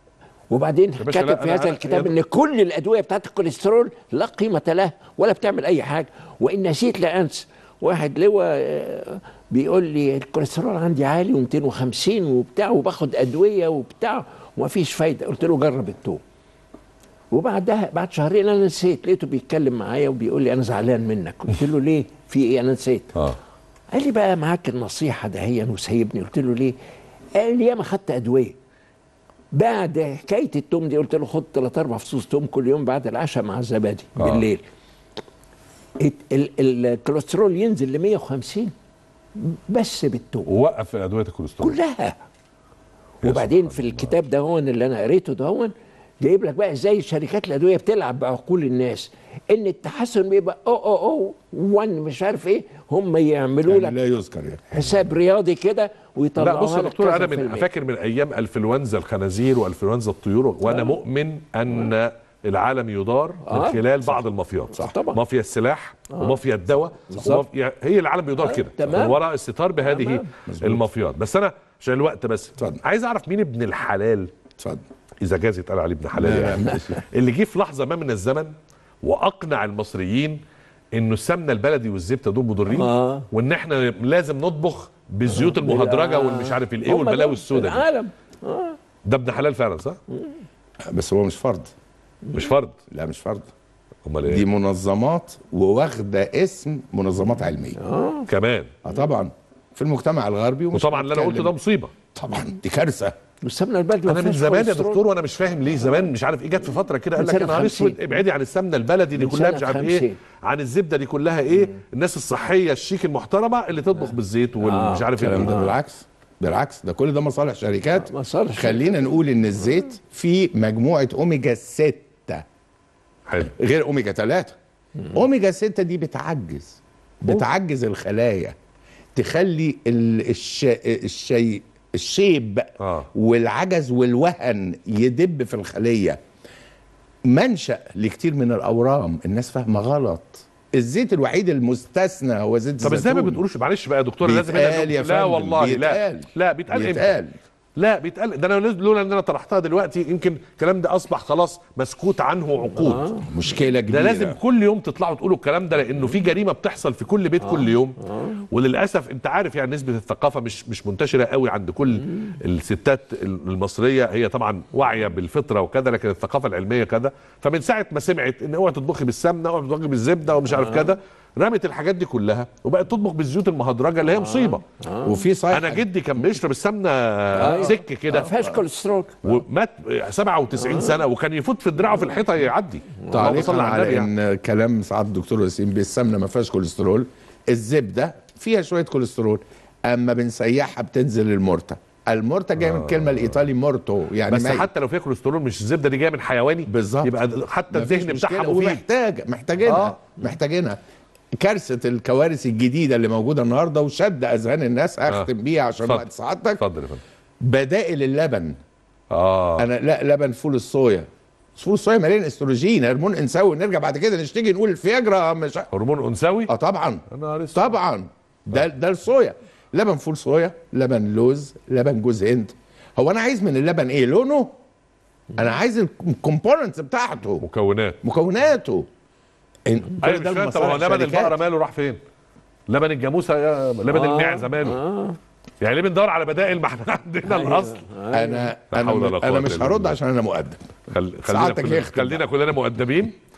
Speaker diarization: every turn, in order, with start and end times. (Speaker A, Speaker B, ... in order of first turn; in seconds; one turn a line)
Speaker A: 0.5-16.2
Speaker B: 1.0-2.1
Speaker A: 17.3-23.1
Speaker A: 23.9-26.8
Speaker A: 27.4-28.6
Speaker A: 29.5-34.6
Speaker B: 34.2-34.5
Speaker A: 36.0-38.7
Speaker A: 39.4-40.5
Speaker B: 40.5-41.8
Speaker A: 41.6-42.2
Speaker B: 43.2-44.1
Speaker A: 43.2-54.0
Speaker C: 53.7-54.8
Speaker A: 54.7-57.7
Speaker B: 56.4-74.3
Speaker A: 60.6-61.0
Speaker A: 63.5-63.8
Speaker A: 64.8-65.2
Speaker A: 66.1-66.4
Speaker A: 67.1-67.4
Speaker A: 68.4-69.2
Speaker A: 69.8-70.3
Speaker C: 70.5-70.9
Speaker B: 75.2-80.4
Speaker C: 76.2-77.0
Speaker A: 76.3-76.8
Speaker B: 80.9-87.9
Speaker A: 82.7-83.3
Speaker A: 85.3-88.8
Speaker B: 89.0-90.0
Speaker C: 90.9-91.7
Speaker B: 92.3-92.8
Speaker C: 92.9-93.5
Speaker B: 94.0-94.5
Speaker C: 94.3-97.8
Speaker A: 97.8-98.3
Speaker B: 98.3-98.7
Speaker C: 98.8-101.5
Speaker B: 100.7-101.9
Speaker C: 102.1-103.1
Speaker A: 103.4-105.0
Speaker B: 104.1-115.6
Speaker A: 107.2-108.2
Speaker A: 109.1-110.2
Speaker A: 114.6-115.7
Speaker C: 115.2-122.5
Speaker A: 118.0-119.0
Speaker B: 123.3-123.5
Speaker C: 123.5-124.6
Speaker C: 125.1-128.6
Speaker C: 129.2-136.2
Speaker B: 132.8-133.1
Speaker C: 137.3-143.4
Speaker B: 142.8-147.2
Speaker C: 144.2-147.3
Speaker B: 147.8-153.2
Speaker A: 152.8-153.3
Speaker C: 153.2-154.4
Speaker B: 153.9-174.6
Speaker A: 157.4-158.4
Speaker A: 162.0-162.3
Speaker A: 170.5-170.9
Speaker A: 174.1-175.2
Speaker C: 175.0-175.8
Speaker B: 175.5-178.3
Speaker C: 177.3-178.5
Speaker A: 177.4-179.4
Speaker B: 179.2-184.1
Speaker A: 180.6-181.0
Speaker A: 183.0-183.3
Speaker C: 183.1-194.7
Speaker B: 192.6-193.4
Speaker B: 194.3-198.8
Speaker C: 196.7-197.1
Speaker C: 197.7-200.8
Speaker B: 199.7-200.0
Speaker C: 201.4-206.6
Speaker B: 206.6-207.0
Speaker C: 207.4-208.6
Speaker B: 209.1-209.7
Speaker C: 209.6-215.7
Speaker B: 215.7-216.5
Speaker C: 216.5-224.5
Speaker B: 217.1-217.8
Speaker C: 225.4-227.4
Speaker B: 227.4-228.0
Speaker C: 228.0-228.9
Speaker C: 229.7-231.3
Speaker B: 230.0-232.0
Speaker B: 232.7-234.8
Speaker A: 233.9-235.2
Speaker B: 235.6-237.9
Speaker A: 237.2-238.5
Speaker C: 238.1-240.7
Speaker B: 238.7-239.9
Speaker B: 240.9-243.2
Speaker C: 241.3-242.2